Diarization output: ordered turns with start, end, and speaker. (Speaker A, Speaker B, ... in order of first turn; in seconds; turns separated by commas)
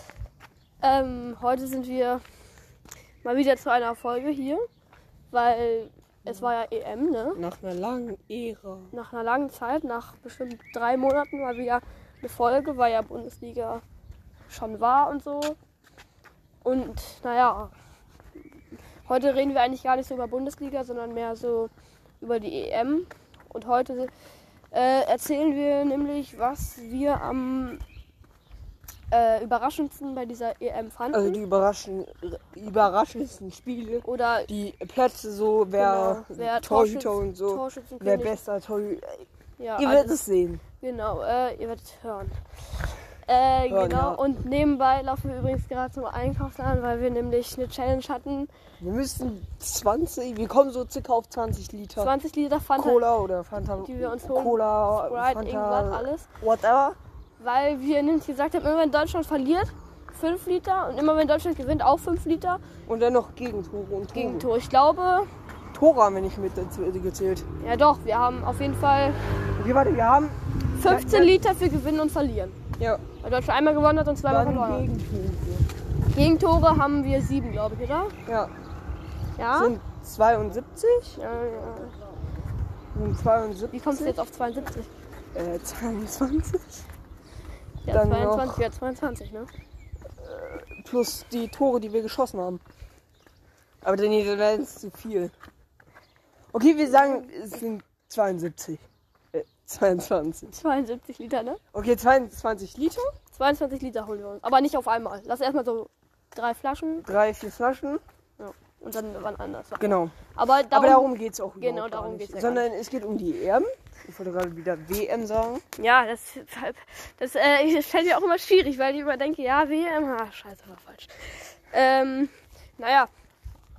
Speaker A: 0.8-2.2, Speaker A: 3.2-4.6, Speaker A: 5.3-7.4, Speaker B: 7.3-8.9, Speaker A: 8.9-13.8, Speaker A: 14.5-15.6, Speaker A: 16.6-17.7, Speaker A: 19.1-24.1, Speaker A: 24.7-27.8, Speaker A: 29.1-31.4, Speaker B: 31.1-40.6, Speaker A: 34.0-34.5, Speaker A: 35.8-38.4, Speaker A: 39.6-40.2, Speaker A: 40.8-42.4, Speaker A: 43.2-48.5, Speaker B: 43.7-44.2, Speaker B: 48.8-52.1, Speaker A: 52.0-53.1, Speaker B: 52.8-57.0, Speaker A: 53.8-56.3, Speaker A: 57.4-62.6, Speaker B: 62.9-64.5, Speaker A: 64.1-65.3, Speaker B: 65.7-67.4, Speaker A: 67.6-69.2, Speaker B: 69.6-71.4, Speaker A: 70.8-72.6, Speaker B: 72.8-73.0, Speaker A: 73.2-74.9, Speaker B: 74.3-75.7, Speaker A: 76.1-78.1, Speaker B: 78.2-78.5, Speaker A: 79.4-79.7, Speaker B: 79.5-81.2, Speaker A: 81.2-81.9, Speaker B: 82.9-84.2, Speaker A: 83.7-84.9, Speaker B: 85.3-86.8, Speaker A: 87.8-89.5, Speaker B: 87.9-88.6, Speaker B: 90.2-92.6, Speaker B: 93.8-95.3, Speaker B: 96.5-100.6, Speaker A: 100.5-101.6, Speaker B: 101.7-103.1, Speaker A: 103.3-107.1, Speaker B: 107.0-108.0, Speaker A: 108.4-112.7, Speaker B: 109.8-110.1, Speaker B: 110.7-115.6, Speaker A: 115.8-123.1